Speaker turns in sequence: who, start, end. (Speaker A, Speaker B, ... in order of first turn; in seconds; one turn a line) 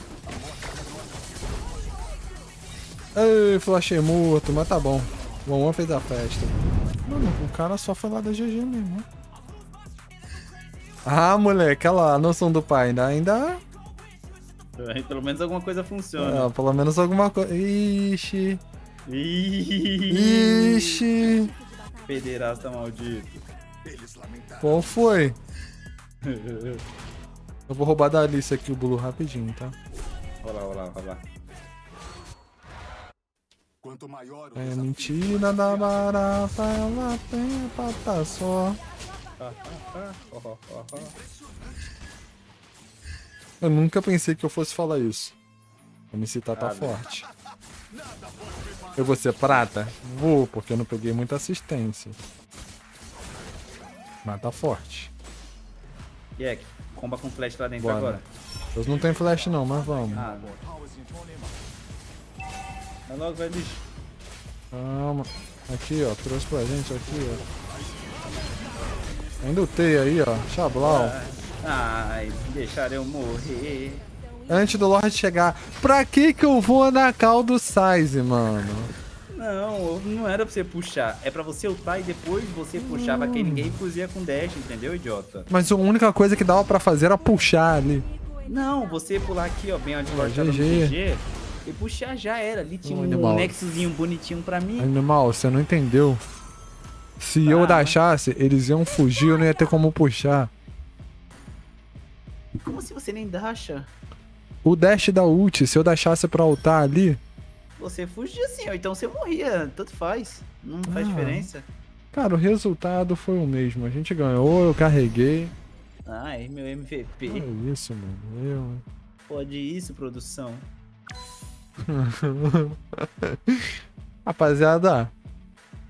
Speaker A: 0.4-0.9
Speaker B: 3.1-9.1
Speaker B: 11.0-13.6
Speaker C: 14.8-16.5
Speaker B: 16.1-18.6
Speaker C: 19.1-21.1
Speaker B: 20.1-21.5
Speaker C: 22.1-23.4
Speaker A: 23.9-24.6
Speaker B: 24.6-25.4
Speaker C: 26.2-26.8
Speaker B: 27.7-29.7
Speaker C: 30.4-31.2
Speaker A: 33.8-34.5
Speaker B: 34.5-38.8
Speaker C: 39.4-41.2
Speaker B: 43.6-45.4
Speaker B: 46.1-47.2
Speaker C: 46.5-47.0
Speaker A: 48.1-48.8
Speaker B: 49.0-52.1
Speaker B: 54.2-55.1
Speaker C: 56.4-58.2
Speaker B: 57.8-58.2
Speaker B: 58.7-60.3
Speaker C: 60.1-60.6
Speaker C: 63.1-63.8
Speaker B: 64.7-67.4
Speaker B: 69.4-71.1
Speaker C: 70.8-74.1
Speaker B: 74.5-78.9
Speaker C: 79.3-85.5
Speaker B: 82.8-83.8
Speaker B: 85.5-88.1
Speaker C: 88.4-94.9
Speaker B: 90.1-90.9
Speaker B: 92.8-93.5
Speaker B: 94.8-96.2
Speaker B: 97.2-100.5
Speaker C: 97.4-98.0
Speaker C: 102.6-103.9
Speaker B: 104.6-107.2
Speaker C: 107.8-111.7
Speaker B: 110.8-111.5
Speaker B: 112.1-115.5
Speaker C: 116.0-117.5
Speaker B: 117.3-118.8
Speaker C: 119.3-120.7
Speaker B: 121.9-125.1